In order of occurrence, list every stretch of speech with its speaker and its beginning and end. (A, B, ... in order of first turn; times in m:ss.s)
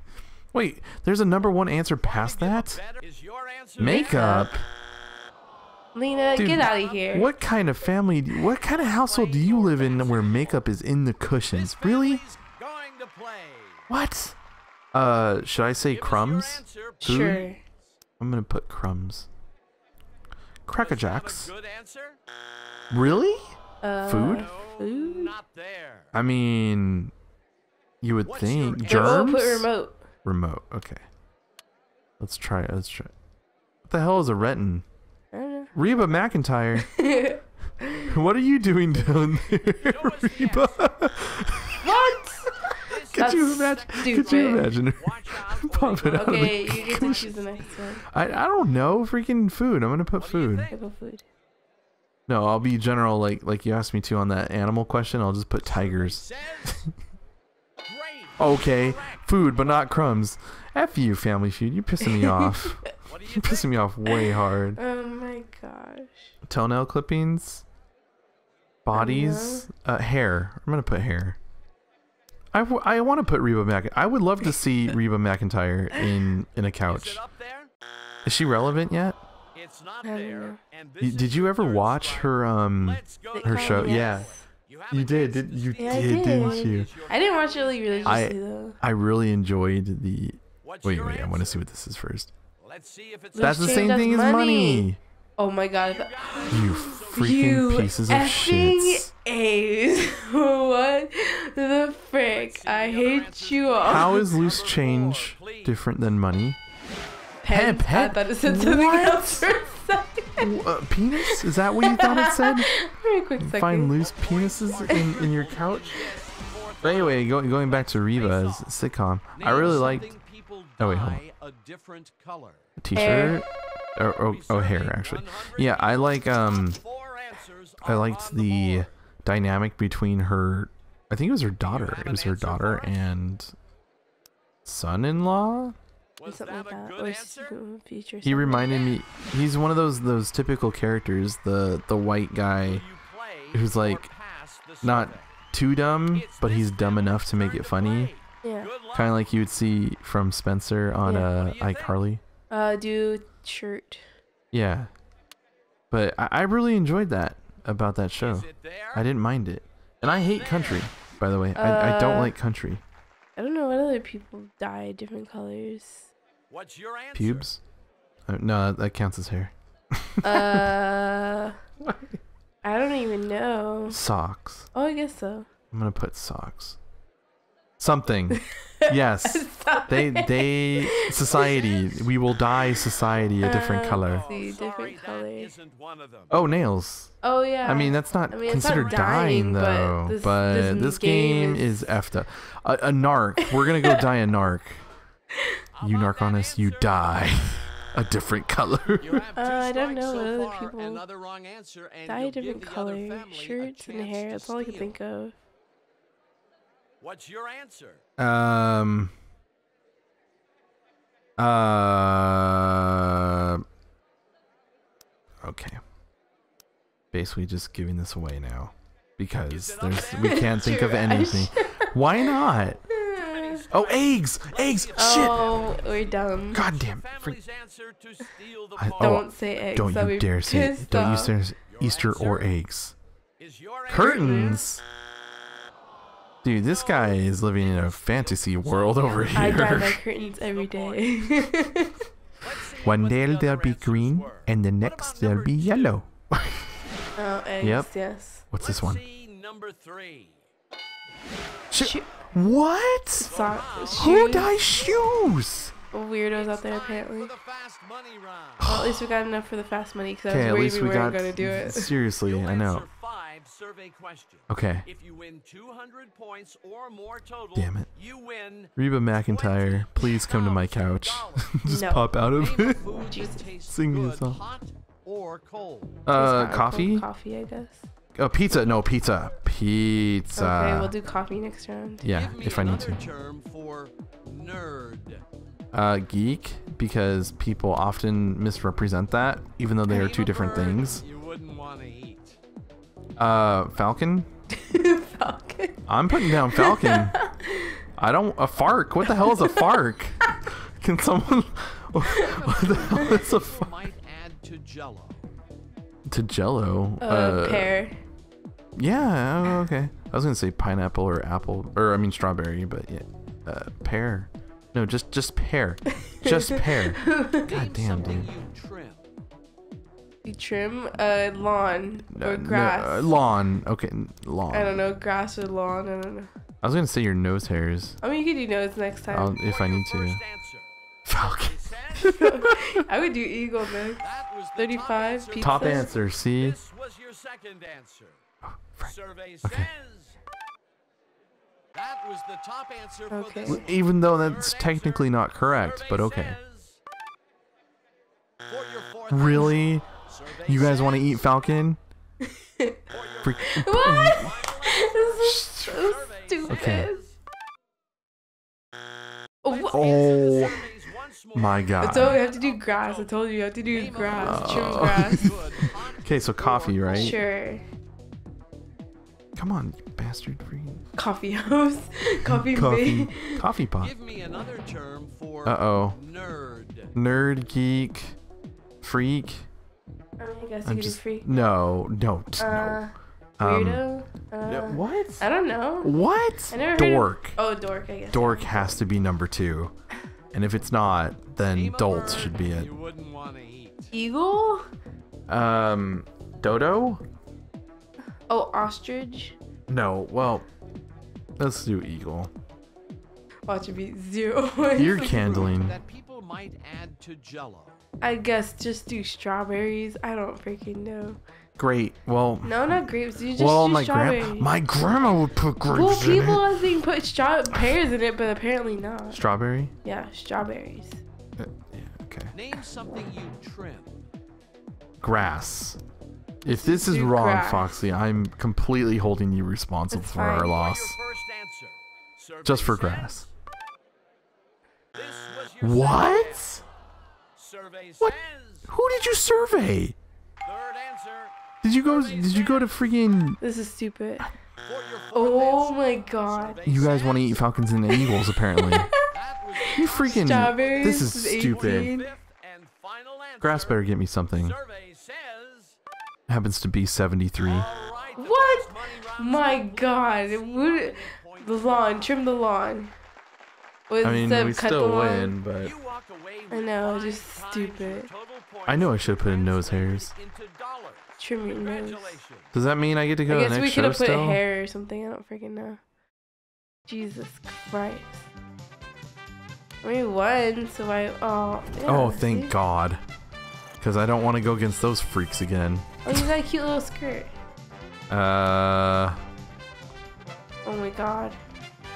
0:00.5-0:02.8 A
0:02.0-0:04.5 B
0:03.8-0:04.6 A
0:03.8-0:04.6 C
0:05.9-0:07.3 C
0:06.1-0:07.6 B
0:06.4-0:12.2 A
0:08.7-0:10.7 B
0:11.5-0:13.8 B
0:13.9-0:14.4 A
0:14.9-0:17.5 A
0:15.9-0:17.6 B
0:17.0-0:17.6 C
0:18.2-0:19.3 A
0:20.7-0:21.5 A
0:20.8-0:22.2 B
0:22.9-0:24.5 A
0:23.8-0:25.4 C
0:24.2-0:26.1 B
0:26.1-0:27.1 A
0:28.0-0:29.7 A
0:28.2-0:29.3 B
0:28.8-0:30.0 C
0:30.2-0:31.0 A
0:32.2-0:33.1 A
0:33.9-0:34.9 A
0:35.3-0:35.7 C
0:35.7-0:36.9 A
0:36.8-0:38.2 C
0:38.0-0:42.2 A
0:39.8-0:41.0 B
0:41.8-0:44.7 C
0:42.8-0:47.2 A
0:42.8-0:47.9 B
0:46.1-0:48.1 C
0:48.1-0:50.7 A
0:50.2-0:50.8 B
0:50.7-0:51.2 C
0:52.3-0:56.9 A
0:55.6-0:56.9 B
0:57.8-0:59.8 B
0:58.4-1:04.8 A
1:02.0-1:02.9 C
1:03.1-1:03.9 B
1:04.1-1:06.4 C
1:06.4-1:07.7 A
1:08.8-1:11.4 A
1:08.9-1:09.7 C
1:12.5-1:17.2 A
1:16.9-1:17.7 B
1:18.2-1:19.2 A
1:19.6-1:28.3 B
1:20.0-1:20.6 C
1:21.0-1:24.3 A
1:23.4-1:24.4 C
1:24.9-1:26.9 A
1:25.8-1:28.8 C
1:28.0-1:32.3 A
1:30.6-1:31.6 B
1:32.6-1:34.2 B
1:33.4-1:34.9 C
1:33.4-1:35.0 A
1:35.4-1:44.3 C
1:35.7-1:38.3 B
1:36.5-1:39.1 A
1:42.3-1:45.8 B
1:43.8-1:46.6 A
1:47.4-1:50.5 C
1:47.5-1:49.5 A
1:49.4-1:49.9 B
1:50.4-1:52.7 A
1:51.2-1:54.0 C
1:53.4-1:56.1 A
1:54.0-1:58.8 B
1:54.8-1:55.2 C
1:56.8-2:00.1 A
1:59.4-2:02.7 B
1:59.4-2:00.0 C
2:00.8-2:01.2 A
2:02.8-2:06.8 A
2:02.9-2:03.4 C
2:04.2-2:08.9 B
2:07.8-2:13.6 A
2:11.6-2:13.2 B
2:14.6-2:15.8 A
2:16.2-2:17.6 B
2:16.2-2:18.9 C
2:18.2-2:22.8 A
2:22.6-2:25.4 B
2:23.5-2:24.1 A
2:24.8-2:28.1 A
2:26.1-2:29.2 B
2:28.4-2:28.7 C
2:28.9-2:32.2 A
2:31.0-2:31.3 C
2:31.4-2:32.0 B
2:32.5-2:34.1 C
2:34.5-2:34.9 A
2:35.9-2:42.8 A
2:38.2-2:39.0 B
2:40.0-2:40.9 B
2:41.6-2:42.4 C
2:43.4-2:46.1 C
2:46.5-2:47.5 B
2:47.1-2:47.6 A
2:48.3-2:50.7 A
2:50.2-2:51.6 C
2:51.8-2:52.2 A
2:52.6-2:54.0 C
2:53.9-2:54.7 A
2:54.7-2:55.5 C
2:55.7-2:56.8 A
2:57.8-3:04.3 A
2:58.3-3:01.7 C
3:01.1-3:02.0 B
3:02.6-3:02.8 C
3:03.4-3:05.5 C
3:04.0-3:06.3 B
3:06.3-3:14.8 A
3:07.2-3:12.0 C
3:13.6-3:14.0 C
3:15.7-3:17.3 B
3:15.8-3:19.2 A
3:19.0-3:24.9 B
3:19.4-3:21.0 C
3:22.1-3:25.4 C
3:27.0-3:28.0 B
3:28.2-3:29.1 A
3:31.4-3:33.6 A
3:35.4-3:35.8 A
3:37.1-3:42.8 A
3:39.5-3:40.7 B
3:40.1-3:43.7 C
3:42.6-3:49.3 B
3:43.7-3:45.6 A
3:45.0-3:46.6 C
3:46.5-3:47.4 A
3:48.8-3:53.0 A
3:49.0-3:51.4 C
3:51.7-3:52.5 B
3:53.4-3:54.6 B
3:53.9-3:54.8 A
3:53.9-3:54.6 C
3:56.4-4:00.0 A
3:56.7-4:01.6 B
3:59.3-4:02.1 C
4:02.4-4:06.0 B
4:02.8-4:06.8 A
4:07.2-4:08.5 C
4:07.6-4:07.9 A
4:08.5-4:09.0 A
4:08.6-4:10.4 B
4:11.7-4:13.3 A
4:11.8-4:12.2 C
4:13.2-4:14.9 C
4:13.2-4:15.2 B
4:14.0-4:15.8 A
4:15.9-4:17.3 C
4:16.3-4:18.7 B
4:18.6-4:19.1 A
4:18.6-4:21.9 C
4:20.3-4:22.9 A
4:22.1-4:31.6 B
4:24.5-4:24.9 A
4:27.5-4:27.9 A
4:28.8-4:32.8 A
4:31.6-4:32.1 C
4:32.3-4:36.1 B
4:32.8-4:33.5 C
4:33.7-4:34.4 A
4:36.1-4:37.1 A
4:36.2-4:37.9 C
4:38.2-4:40.9 A
4:40.4-4:42.1 C
4:42.0-4:43.0 A
4:42.1-4:45.2 B
4:45.7-4:51.0 A
4:49.9-4:50.8 C
4:50.0-4:52.4 B
4:53.2-4:54.3 A
4:54.5-4:57.8 C
4:55.9-4:57.2 A
4:58.0-5:03.8 A
4:59.0-4:59.8 C
5:02.0-5:05.2 B
5:03.0-5:03.3 C
5:06.1-5:07.8 A
5:07.0-5:08.0 C
5:08.8-5:18.3 A
5:16.1-5:17.6 C
5:17.4-5:19.0 B
5:20.2-5:23.2 C
5:22.1-5:24.8 A
5:24.5-5:26.3 C
5:26.6-5:28.0 A
5:28.0-5:29.4 C
5:29.1-5:30.2 A
5:29.4-5:32.4 B
5:31.1-5:32.5 A
5:32.1-5:35.9 C
5:34.0-5:38.2 B
5:35.4-5:36.6 A
5:38.5-5:39.7 A
5:38.8-5:40.2 B
5:41.7-5:46.8 B
5:43.1-5:43.6 C
5:43.5-5:46.4 A
5:48.5-5:51.6 B
5:49.1-5:49.9 A
5:50.4-5:51.8 A
5:52.2-5:52.8 C
5:52.9-5:57.2 B
5:53.2-5:54.4 A
5:53.4-5:57.0 C
5:55.2-5:55.9 A
5:56.5-5:56.9 A
5:59.4-6:00.4 C
5:59.5-6:03.1 B
5:59.7-6:00.6 A
6:01.3-6:02.2 A
6:01.8-6:05.4 C
6:03.7-6:07.2 B
6:04.2-6:07.2 A
6:06.9-6:07.7 C
6:09.4-6:10.8 A
6:11.0-6:13.4 C
6:12.2-6:13.9 A
6:13.8-6:16.9 B
6:15.4-6:16.0 A
6:16.9-6:18.2 A
6:18.8-6:19.5 A
6:20.2-6:21.3 C
6:20.6-6:22.8 A
6:22.4-6:25.9 C
6:23.4-6:23.8 A
6:24.4-6:25.3 A
6:25.8-6:27.4 A
6:26.5-6:28.8 C
6:28.1-6:29.7 A
6:30.3-6:32.7 A
6:31.4-6:33.9 B
6:33.9-6:34.7 C
6:35.3-6:37.0 A
6:38.3-6:39.4 C
6:39.7-6:40.5 A
6:41.4-6:42.3 A
6:43.5-6:45.6 C
6:44.8-6:45.8 A
6:45.5-6:47.8 B
6:48.0-6:51.2 C
6:51.6-6:52.8 A
6:52.4-6:54.5 C
6:53.4-6:56.7 A
6:55.7-6:59.2 C
6:59.1-6:59.7 A
6:59.8-7:01.0 C
7:01.4-7:02.4 A
7:02.3-7:04.0 B
7:05.0-7:05.8 A
7:06.4-7:11.0 A
7:06.5-7:07.8 C
7:09.9-7:10.6 C
7:10.5-7:13.3 B
7:12.4-7:13.3 A
7:14.9-7:16.6 B
7:15.6-7:16.6 A
7:17.4-7:18.7 B
7:18.7-7:20.0 A
7:20.4-7:22.7 B
7:21.6-7:23.4 A
7:23.4-7:24.3 C
7:24.6-7:27.6 B
7:25.1-7:26.6 C
7:26.6-7:28.9 A
7:27.9-7:32.1 C
7:29.1-7:35.8 B
7:29.7-7:31.9 A
7:33.4-7:34.6 A
7:36.3-7:37.7 A
7:37.4-7:42.2 B
7:38.2-7:42.9 C
7:43.9-7:45.4 C
7:44.0-7:45.7 A
7:45.6-7:52.5 B
7:46.5-7:48.1 C
7:48.7-7:50.1 A
7:51.2-7:52.2 C
7:52.5-7:54.4 A
7:53.3-7:55.8 C
7:56.9-7:58.3 C
7:59.8-8:02.5 C
8:01.8-8:03.0 A
8:03.8-8:06.2 A
8:06.0-8:07.3 C
8:08.1-8:09.2 A
8:10.6-8:11.4 C